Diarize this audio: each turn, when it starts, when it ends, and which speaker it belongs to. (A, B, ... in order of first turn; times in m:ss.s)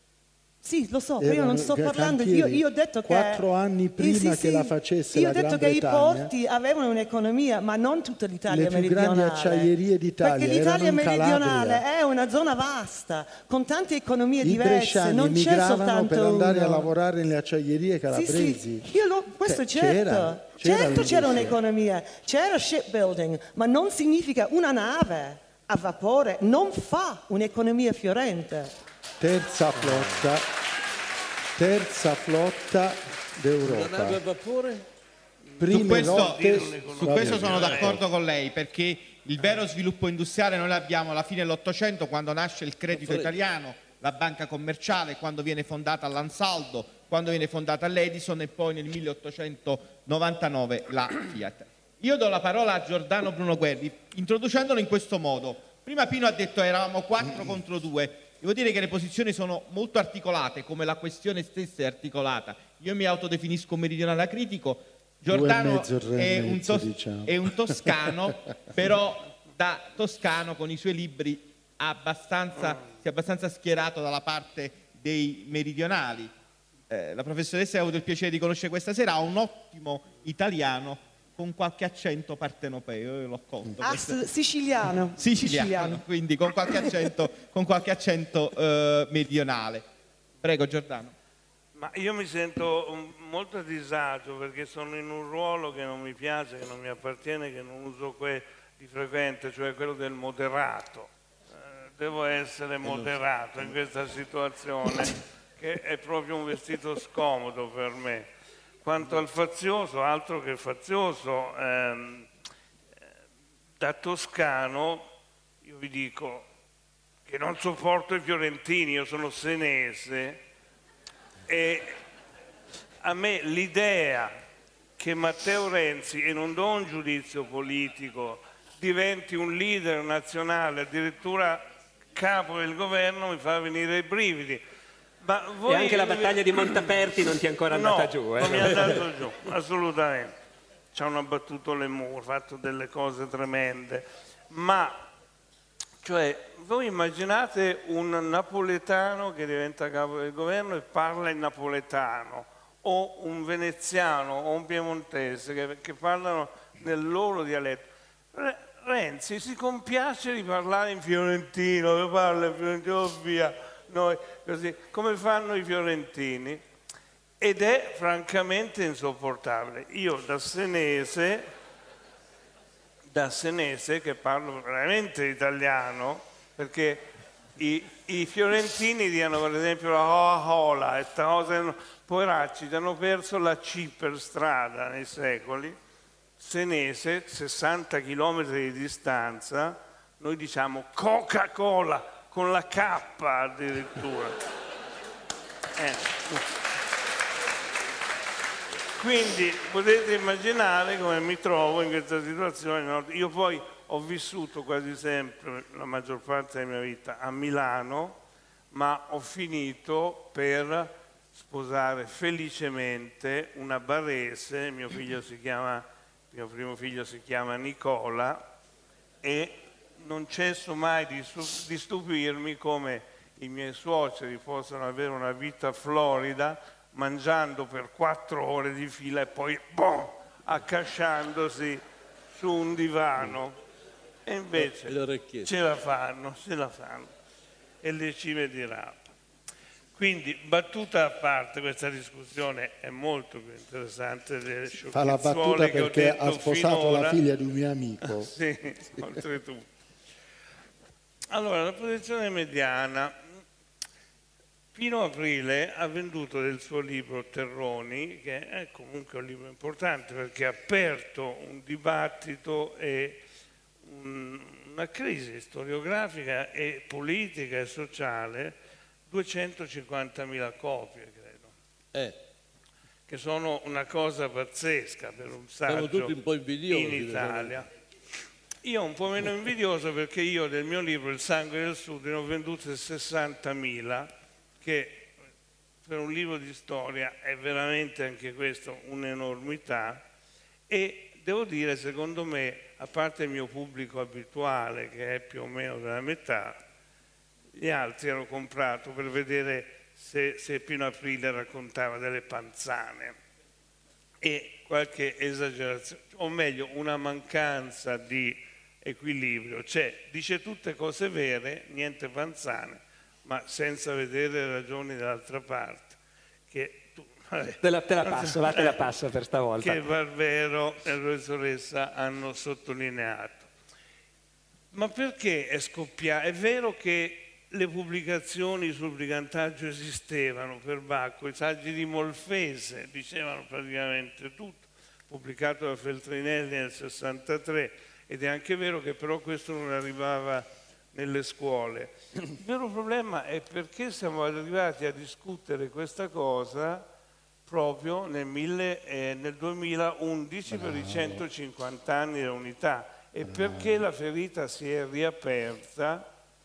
0:00.6-0:03.5 A
0:01.2-0:06.3 B
0:04.0-0:16.9 A
0:08.5-0:11.8 B
0:14.4-0:18.9 B
0:18.1-0:28.8 A
0:19.4-0:21.6 B
0:29.2-0:30.5 B
0:31.6-0:34.2 B
0:33.6-0:34.9 C
0:35.6-0:38.0 B
0:35.7-1:16.3 D
0:35.7-0:38.0 E
0:42.9-0:43.4 C
1:05.3-1:08.2 B
1:16.9-1:24.2 D
1:23.8-1:26.0 A
1:25.2-1:29.9 D
1:30.4-1:31.1 D
1:31.8-1:48.3 E
1:42.8-1:43.8 C
1:48.8-1:52.3 E
1:53.8-1:55.0 E
1:55.6-1:56.5 E
1:57.3-2:00.4 E
2:01.5-2:02.0 E
2:03.0-2:04.3 E
2:05.0-2:14.6 E
2:15.2-2:16.9 E
2:15.7-2:19.0 F
2:17.7-2:20.3 E
2:20.9-2:25.0 E
2:26.0-2:46.6 E
2:47.4-2:51.5 E
2:53.1-3:05.8 E
3:06.4-3:14.4 E
3:15.8-3:16.4 E
3:19.0-3:28.2 E
3:28.7-3:38.4 E
3:39.2-3:53.6 E
3:54.3-3:57.1 E
3:54.6-3:55.5 C
3:57.8-3:59.0 E
4:00.0-4:07.2 E
4:04.8-4:08.3 B
4:08.0-4:09.7 E
4:11.3-4:13.1 E
4:14.8-4:23.2 E
4:23.8-4:28.6 E
4:29.1-4:31.5 E
4:33.1-4:36.2 E
4:35.7-4:37.6 C
4:36.7-4:37.7 E
4:38.6-4:45.1 E
4:45.8-4:50.0 E
4:50.7-4:56.6 E
4:57.5-5:03.2 E
5:04.2-5:16.0 E
5:16.5-5:18.8 E
5:17.6-5:19.8 F
5:19.6-5:23.5 E
5:24.7-5:46.8 E
5:47.5-5:56.1 E
5:50.5-5:51.2 B
5:53.2-5:53.9 B